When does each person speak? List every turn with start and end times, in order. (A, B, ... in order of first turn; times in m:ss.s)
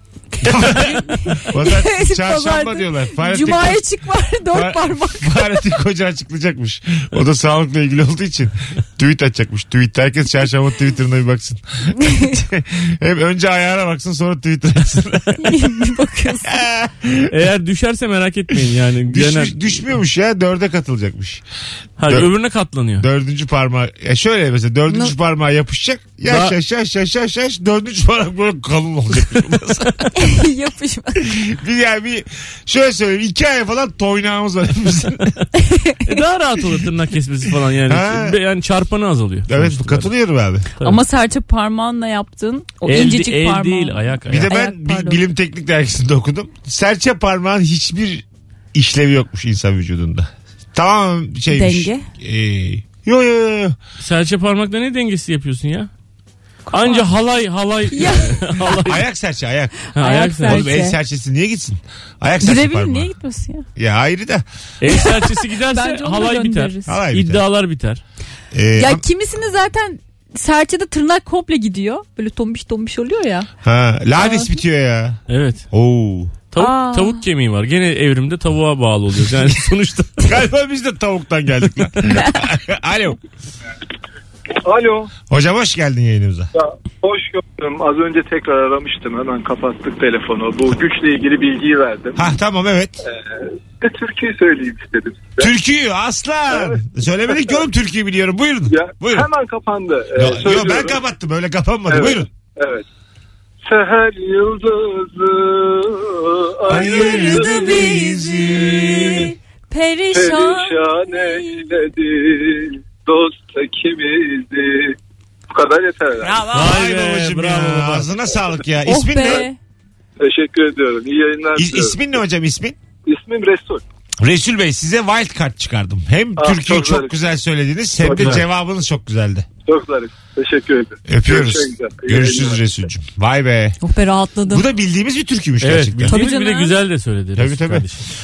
0:00.4-0:03.9 A
0:00.4-0:05.7 B
0:04.5-0:15.7 A
0:15.4-0:16.5 B
0:16.4-0:17.3 A
0:17.3-0:19.8 C
0:19.1-0:21.4 A
0:22.0-0:23.1 C
0:23.0-0:30.4 A
0:24.9-0:25.1 B
0:26.3-0:26.6 C
0:30.2-0:31.3 B
0:31.2-0:35.5 A
0:35.6-0:36.0 B
0:36.0-0:40.1 C
0:37.9-0:38.4 A
0:39.5-0:40.7 A
0:40.8-0:45.2 B
0:42.9-0:44.5 C
0:44.3-0:53.8 A
0:51.5-0:52.1 B
0:54.0-0:55.9 C
0:56.7-0:57.1 B
0:56.7-0:59.0 C
0:57.9-0:58.7 B
0:58.8-0:59.9 A
0:59.9-1:01.0 B
1:00.0-1:00.7 C
1:00.4-1:03.1 A
1:02.4-1:03.7 B
1:03.8-1:04.4 A
1:04.8-1:08.0 C
1:05.7-1:07.0 B
1:06.9-1:07.4 A
1:08.5-1:09.0 A
1:08.8-1:13.5 B
1:13.6-1:16.4 A
1:14.2-1:14.5 B
1:15.3-1:15.6 C
1:16.5-1:20.4 C
1:16.6-1:17.2 B
1:20.3-1:23.2 A
1:24.6-1:25.1 D
1:25.3-1:26.5 A
1:26.5-1:32.3 D
1:32.2-1:33.0 A
1:33.0-1:35.5 D
1:35.4-1:39.3 A
1:36.5-1:37.6 D
1:38.7-1:41.0 D
1:40.2-1:42.3 A
1:41.9-1:42.8 D
1:43.6-1:47.7 D
1:46.7-1:49.3 A
1:46.7-1:51.7 B
1:48.7-1:49.2 D
1:50.1-1:55.0 D
1:55.5-1:56.4 D
1:56.3-1:59.5 A
1:56.5-1:58.1 C
1:58.8-1:59.6 B
2:00.2-2:02.0 D
2:01.6-2:02.8 A
2:03.1-2:03.8 D
2:04.2-2:09.5 A
2:06.4-2:07.2 D
2:08.0-2:08.5 D
2:09.6-2:12.8 D
2:11.1-2:13.8 A
2:13.8-2:14.6 B
2:14.5-2:16.2 A
2:15.6-2:18.1 C
2:16.1-2:16.8 B
2:17.4-2:17.9 A